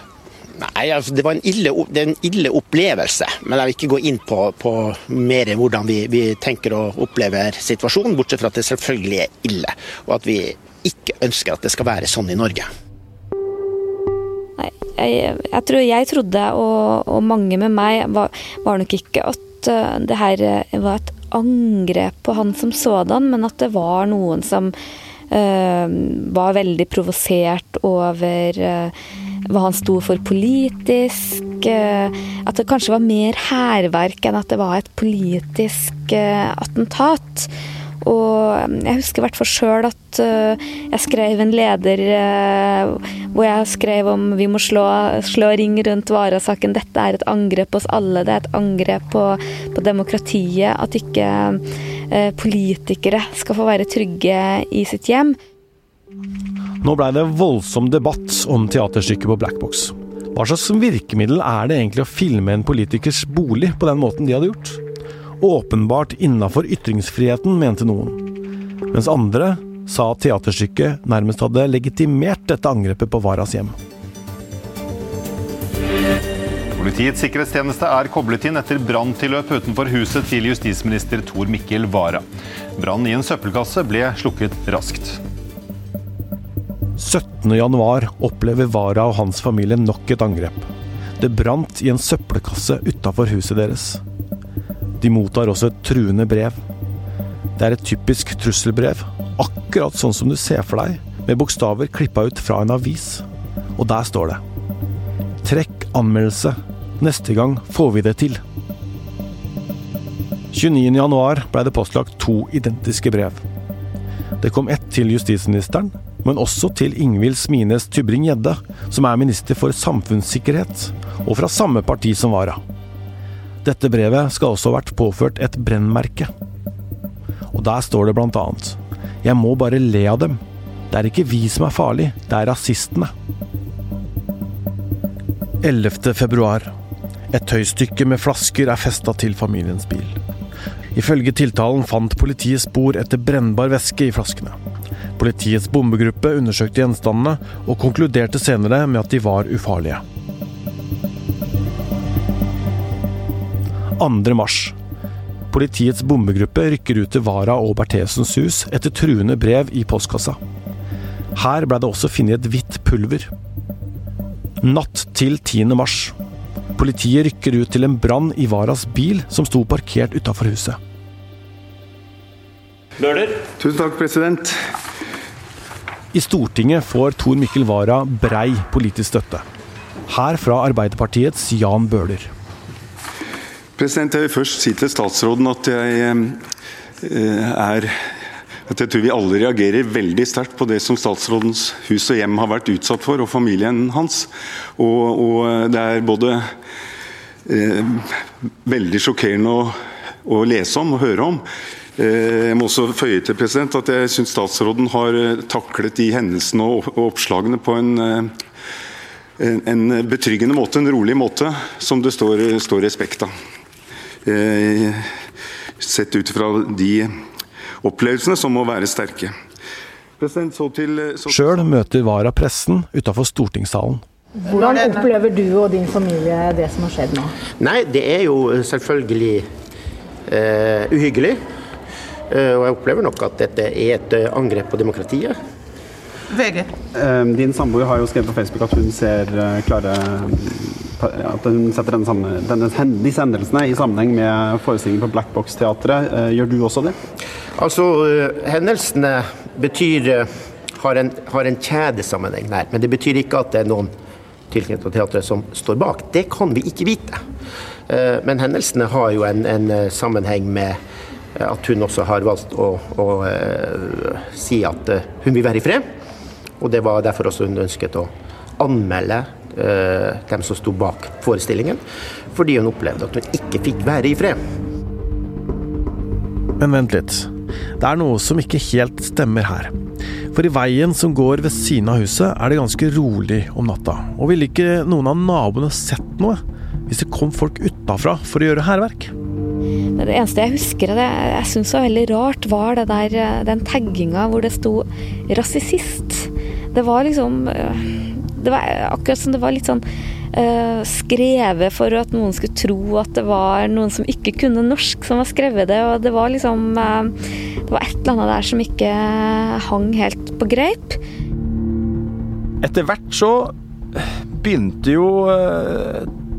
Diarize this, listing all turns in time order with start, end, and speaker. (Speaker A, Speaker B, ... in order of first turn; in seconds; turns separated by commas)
Speaker A: 0.6-12.7, Speaker B: 14.6-24.7, Speaker B: 25.3-28.9, Speaker B: 29.5-37.5, Speaker B: 38.0-55.4, Speaker C: 56.8-64.8, Speaker C: 65.4-68.2, Speaker C: 68.9-73.8, Speaker D: 76.8-82.2, Speaker D: 82.8-85.2, Speaker C: 87.0-90.7, Speaker C: 91.2-94.0, Speaker C: 95.0-96.6, Speaker C: 97.6-104.4, Speaker C: 105.4-108.4, Speaker C: 110.5-113.5, Speaker C: 114.4-122.6, Speaker C: 123.6-126.3, Speaker C: 127.5-133.1, Speaker C: 135.6-136.7, Speaker C: 137.3-140.2, Speaker C: 140.9-144.6, Speaker C: 145.2-150.0, Speaker C: 154.0-154.8, Speaker C: 155.5-160.4, Speaker C: 161.3-163.3, Speaker C: 164.6-166.2, Speaker C: 166.8-170.8, Speaker E: 173.6-174.5, Speaker C: 176.1-179.4, Speaker C: 180.1-182.3, Speaker E: 183.8-186.4, Speaker E: 187.0-187.9, Speaker E: 188.7-196.5, Speaker E: 197.5-198.1, Speaker E: 198.7-201.4, Speaker E: 202.0-208.3, Speaker E: 209.4-213.3, Speaker E: 214.2-215.0, Speaker E: 215.8-217.1, Speaker E: 217.8-219.3, Speaker E: 220.2-221.6, Speaker C: 221.3-224.0, Speaker F: 224.4-227.3, Speaker A: 227.6-229.5, Speaker A: 230.3-231.4, Speaker A: 232.3-235.4, Speaker F: 236.4-236.6, Speaker G: 236.9-247.0, Speaker A: 247.6-253.9, Speaker A: 254.5-257.2, Speaker A: 257.9-260.8, Speaker A: 261.4-265.8, Speaker A: 266.6-271.8, Speaker A: 272.3-274.4, Speaker C: 276.6-279.7, Speaker C: 280.3-289.1, Speaker B: 290.0-307.1, Speaker B: 307.7-311.0, Speaker H: 312.6-316.1